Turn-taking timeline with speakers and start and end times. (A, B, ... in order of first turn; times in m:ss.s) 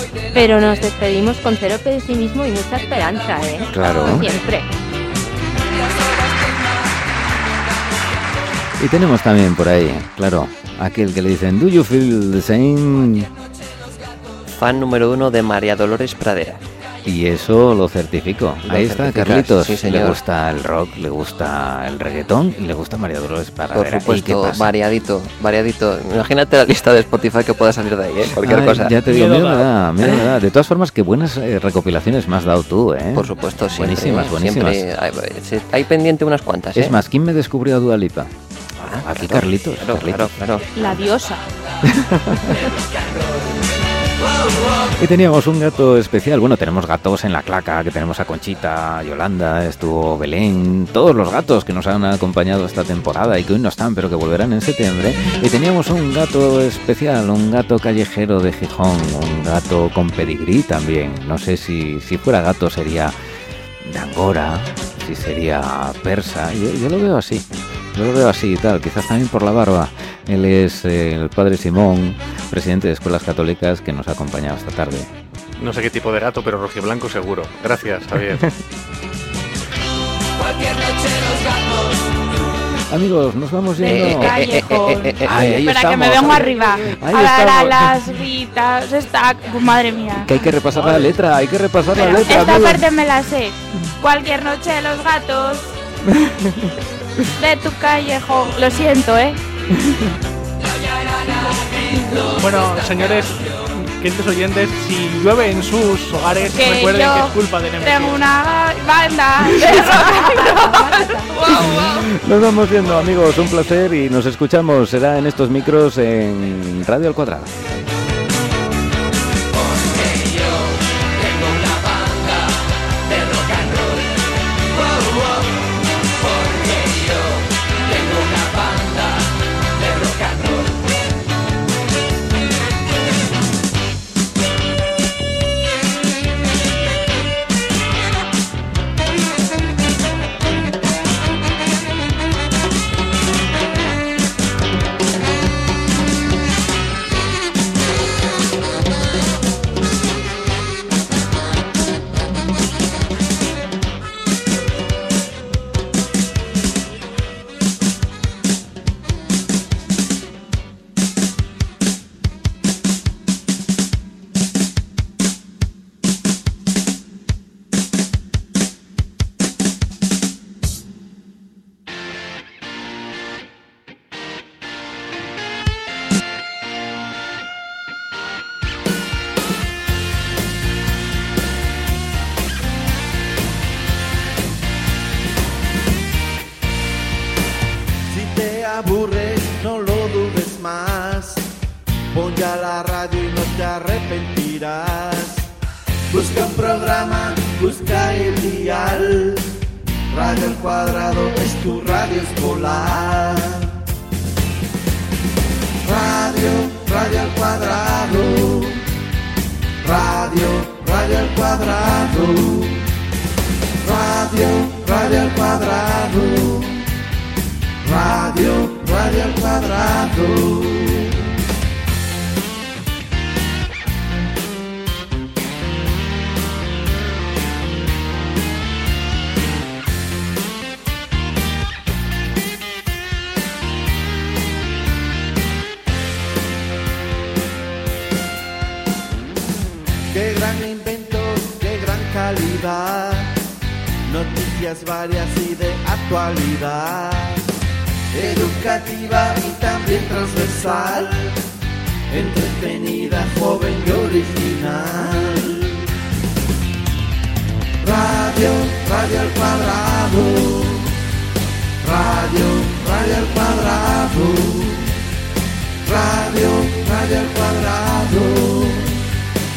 0:00.3-0:04.7 A
0:03.7-0:04.4 B
0:08.8-0:13.3 B
0:14.6-0:16.6 C
0:17.0-0:24.7 B
0:18.6-0:20.2 C
0:23.7-0:29.0 C
0:28.2-0:34.9 B
0:29.0-0:29.7 D
0:33.2-0:37.0 C
0:36.8-0:38.3 B
0:38.8-0:40.7 C
0:39.0-0:40.4 B
0:40.8-0:41.4 E
0:41.8-0:42.7 B
0:45.0-1:03.2 B
1:03.8-1:15.1 B
1:15.6-1:18.5 F
1:22.9-1:28.2 B
1:23.8-1:25.7 C
1:24.0-1:30.3 E
1:30.1-1:32.9 B
1:30.7-1:31.1 D
1:31.9-1:35.8 E
1:36.1-1:36.8 B
1:37.4-1:39.4 E
1:42.4-1:48.2 D
1:46.5-1:52.0 E
1:49.4-1:49.8 B
1:49.6-1:50.0 A
1:50.6-1:51.4 A
1:51.5-1:57.6 B
3:08.1-3:11.5 G
3:12.1-3:15.5 G
3:16.1-3:19.5 G
3:20.1-3:23.8 G
3:25.8-3:28.9 G
3:29.8-3:32.9 G
3:33.8-3:36.9 G
3:37.8-3:41.3 G
4:00.1-4:03.4 G
4:04.1-4:07.4 G
4:08.1-4:11.4 G
4:12.1-4:15.8 G
4:17.8-4:21.0 G
4:21.8-4:25.0 G
4:25.8-4:29.0 G